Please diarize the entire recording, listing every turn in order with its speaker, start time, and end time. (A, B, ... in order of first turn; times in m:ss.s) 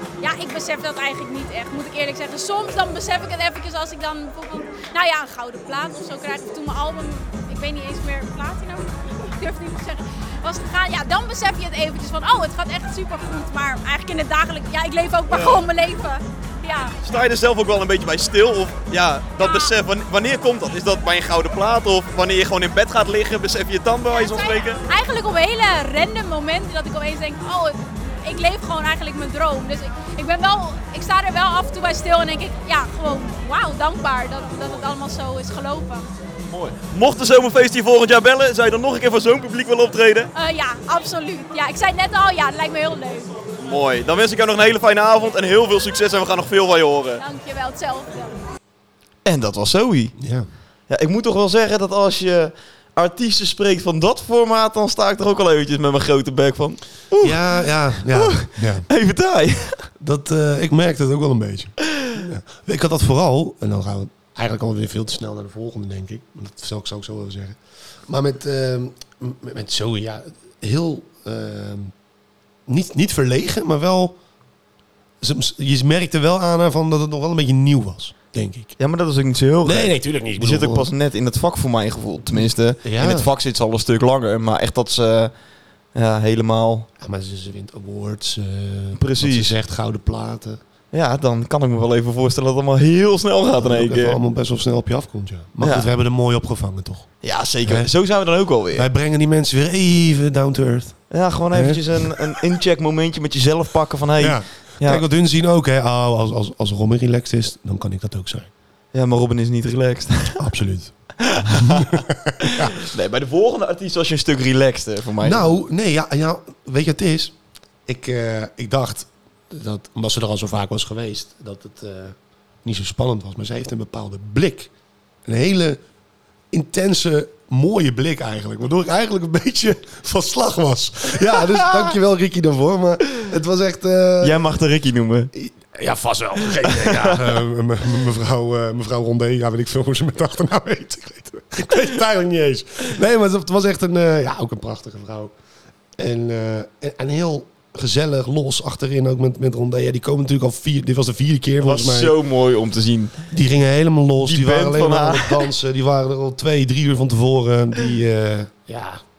0:00.2-0:17.0 A
0:15.3-0:15.6 B
0:17.0-0:24.8 B
0:19.4-0:19.7 A
0:24.1-0:36.1 A
0:36.4-0:40.3 B
0:40.3-0:43.3 A
0:43.6-0:47.2 B
0:47.2-0:48.4 A
0:49.2-0:50.1 B
0:50.2-0:50.4 C
0:50.9-0:59.9 B
0:57.2-0:58.9 C
1:00.0-1:11.9 C
1:12.7-1:14.1 C
1:15.2-1:18.8 C
1:18.8-1:25.3 B
1:19.6-1:20.9 C
1:22.3-1:23.3 C
1:25.9-1:26.9 B
1:27.0-1:30.6 C
1:29.0-1:29.5 B
1:30.9-1:34.2 B
1:33.6-1:37.1 C
1:35.6-1:35.9 B
1:37.2-1:38.9 B
1:37.6-1:37.9 C
1:38.7-1:42.3 C
1:41.1-1:45.0 B
1:44.2-1:48.5 C
1:48.9-1:50.4 B
1:50.4-1:50.9 C
1:51.2-1:55.5 B
1:51.5-1:52.7 C
1:55.2-1:57.3 C
1:57.8-2:04.7 C
2:05.2-2:05.8 C
2:06.5-2:14.5 C
2:14.2-2:15.3 B
2:15.3-2:25.3 C
2:16.6-2:17.2 B
2:26.0-2:32.2 C
2:31.6-2:33.2 B
2:33.3-2:39.0 C
2:34.2-2:35.5 B